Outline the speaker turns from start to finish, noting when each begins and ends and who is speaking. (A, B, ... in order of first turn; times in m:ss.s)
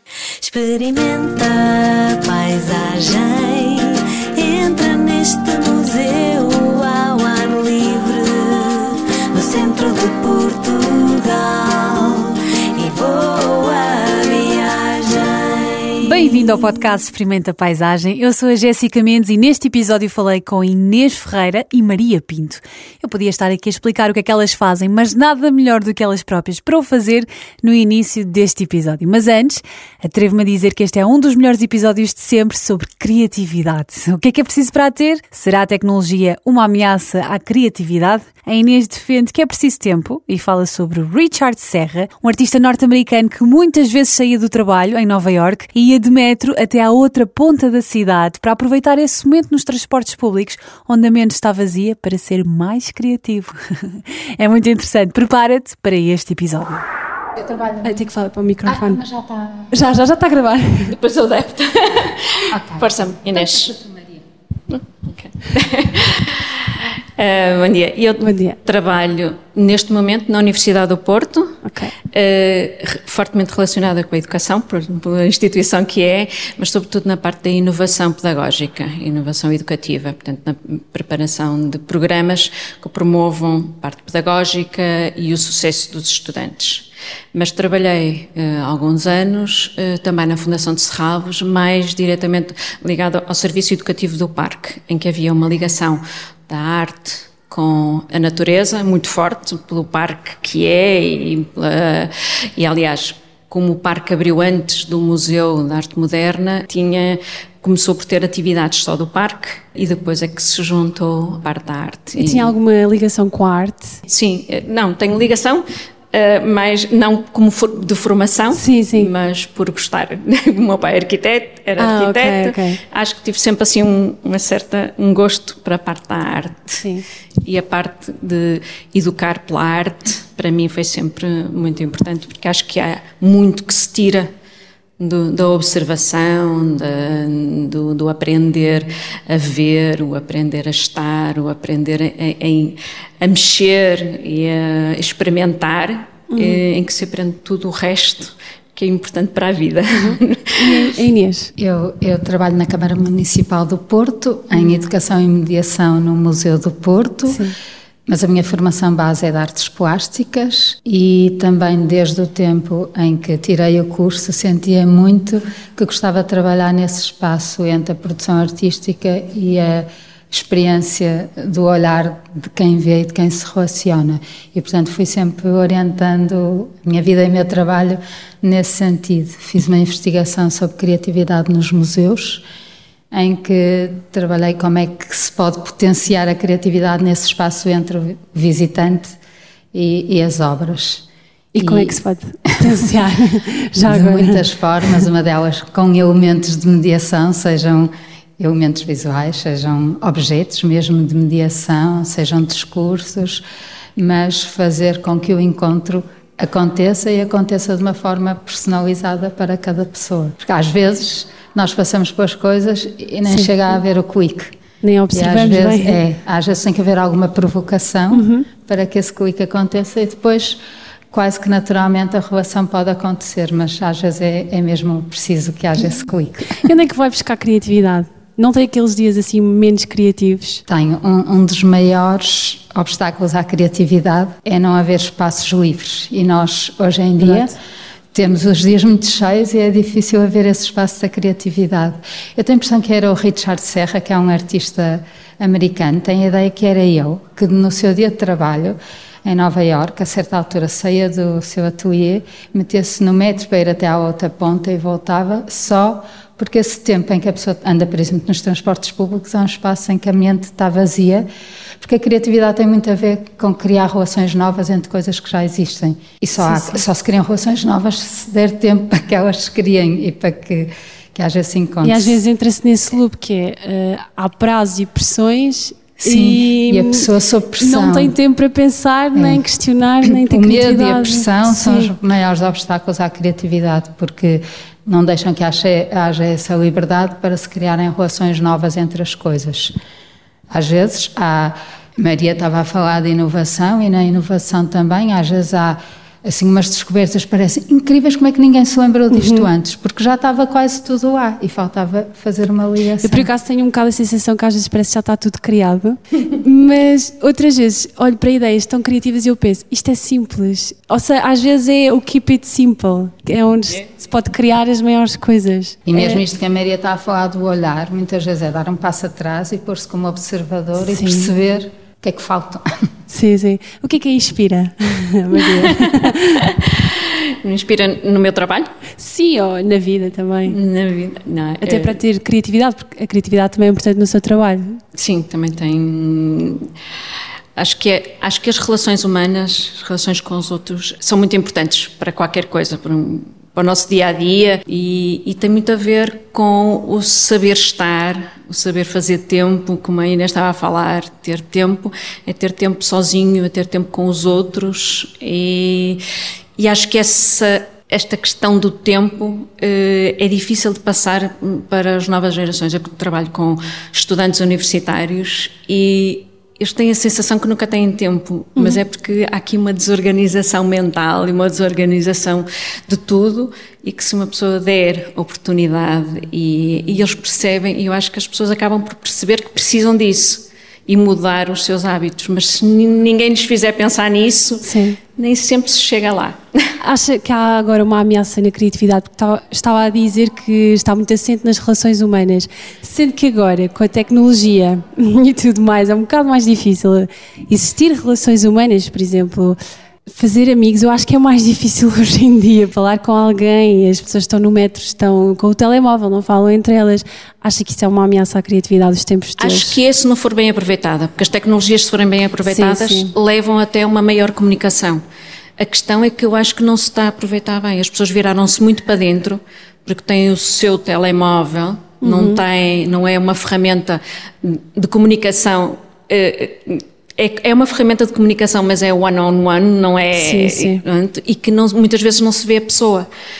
0:00.4-0:16.3 A
0:16.0-0:56.8 B
0:57.4-0:58.1 C
0:57.8-0:59.0 D
0:58.6-0:59.7 C
0:59.7-1:01.0 D
1:00.9-1:03.7 E
1:02.5-1:04.2 C
1:04.7-1:06.6 E
1:07.2-1:11.6 E
1:08.2-1:08.6 D
1:11.6-1:11.9 D
1:12.1-1:52.5 E
1:52.2-1:54.0 D
1:54.1-2:06.8 E
1:58.5-1:59.1 D
2:01.8-2:02.8 D
2:06.8-2:07.0 D
2:07.4-2:14.3 E
2:15.0-2:30.9 E
2:26.3-2:26.6 D
2:29.9-2:31.5 D
2:31.6-2:37.4 C
2:37.2-2:37.5 D
2:38.1-3:02.4 C
3:03.1-3:09.2 C
3:09.7-3:11.0 C
3:11.5-3:15.0 D
3:11.6-3:12.0 C
3:13.8-3:23.4 C
3:24.0-3:34.5 C
3:33.2-3:33.8 D
3:34.8-3:36.0 D
3:35.1-3:40.6 C
3:38.1-3:38.5 D
3:41.1-3:46.6 C
3:46.4-3:50.6 D
3:50.7-3:57.5 C
3:57.2-3:57.5 D
3:58.1-4:21.3 C
4:21.8-4:32.2 C
4:26.4-4:26.8 D
4:31.8-4:37.1 D
4:36.0-4:38.1 C
4:37.6-4:41.9 D
4:39.1-4:39.4 C
4:40.1-4:49.7 C
4:50.5-5:03.3 C
4:59.1-4:59.5 D
5:03.0-5:16.2 D
5:15.9-5:22.6 C
5:20.8-5:21.3 D
5:23.1-5:26.4 D
5:25.4-5:26.1 E
5:27.4-5:28.7 E
5:29.0-5:30.6 D
5:30.4-5:32.0 E
5:31.6-5:34.8 D
5:34.9-5:36.7 E
5:37.6-5:56.0 E
5:56.6-6:26.4 E
6:08.6-6:08.8 D
6:24.6-6:25.0 D
6:26.8-6:49.8 D
6:49.4-6:55.0 E
6:52.4-6:53.1 D
6:55.6-7:13.1 E
7:02.0-7:02.4 D
7:10.1-7:10.8 D